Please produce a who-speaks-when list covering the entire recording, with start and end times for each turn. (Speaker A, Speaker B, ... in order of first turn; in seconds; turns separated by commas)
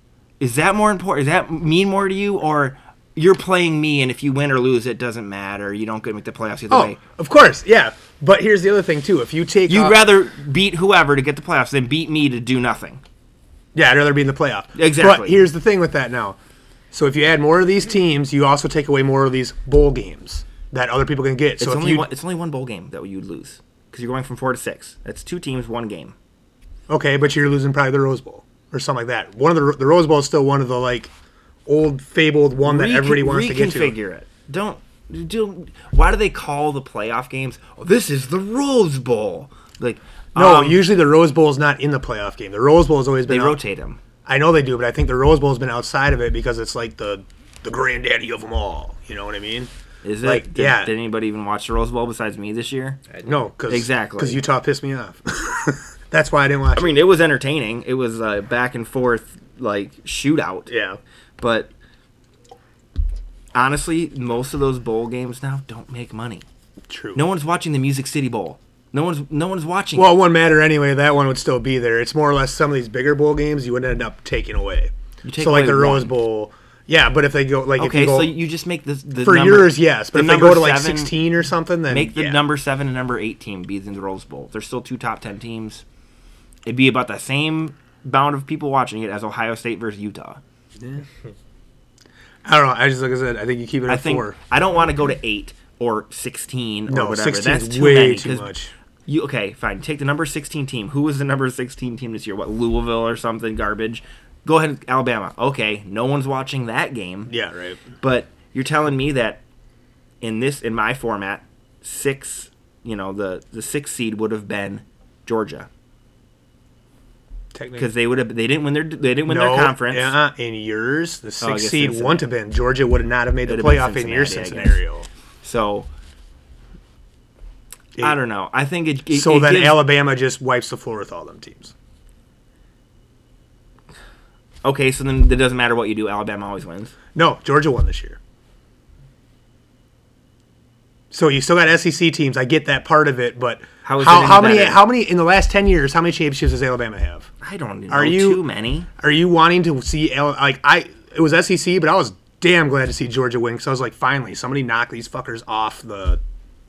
Speaker A: 0.4-7.0, Speaker B: 6.7-10.0, Speaker A: 9.7-13.0, Speaker B: 13.7-16.4, Speaker A: 14.8-15.5, Speaker B: 16.9-22.1, Speaker A: 21.6-26.1, Speaker B: 26.9-31.1, Speaker B: 31.7-34.0, Speaker A: 32.6-40.9, Speaker B: 40.4-43.6, Speaker A: 43.3-44.0, Speaker B: 44.3-49.7, Speaker A: 50.0-53.0, Speaker B: 50.2-50.9, Speaker B: 53.2-56.9, Speaker A: 53.7-54.4, Speaker A: 56.8-60.7, Speaker B: 60.7-61.0, Speaker A: 61.4-61.7, Speaker A: 63.5-66.5, Speaker B: 66.9-67.2, Speaker A: 67.1-70.2, Speaker B: 70.0-78.4, Speaker A: 75.2-76.2, Speaker A: 77.8-81.2, Speaker B: 79.2-82.4, Speaker A: 81.9-85.8, Speaker A: 86.7-90.4, Speaker B: 90.8-91.0, Speaker B: 92.5-94.4, Speaker A: 93.9-98.5, Speaker B: 96.9-98.7, Speaker A: 99.1-107.3, Speaker B: 107.3-107.8, Speaker A: 108.0-109.4, Speaker A: 110.2-115.7, Speaker B: 117.5-117.9, Speaker A: 117.8-120.2, Speaker B: 119.2-125.1, Speaker A: 121.4-122.3, Speaker A: 123.5-124.8, Speaker A: 125.4-125.9, Speaker A: 128.0-129.9, Speaker B: 129.1-131.7, Speaker A: 134.6-136.9, Speaker B: 137.2-138.2, Speaker B: 141.1-147.3, Speaker A: 143.8-144.8, Speaker A: 147.4-148.9, Speaker B: 147.9-148.4, Speaker B: 149.0-156.2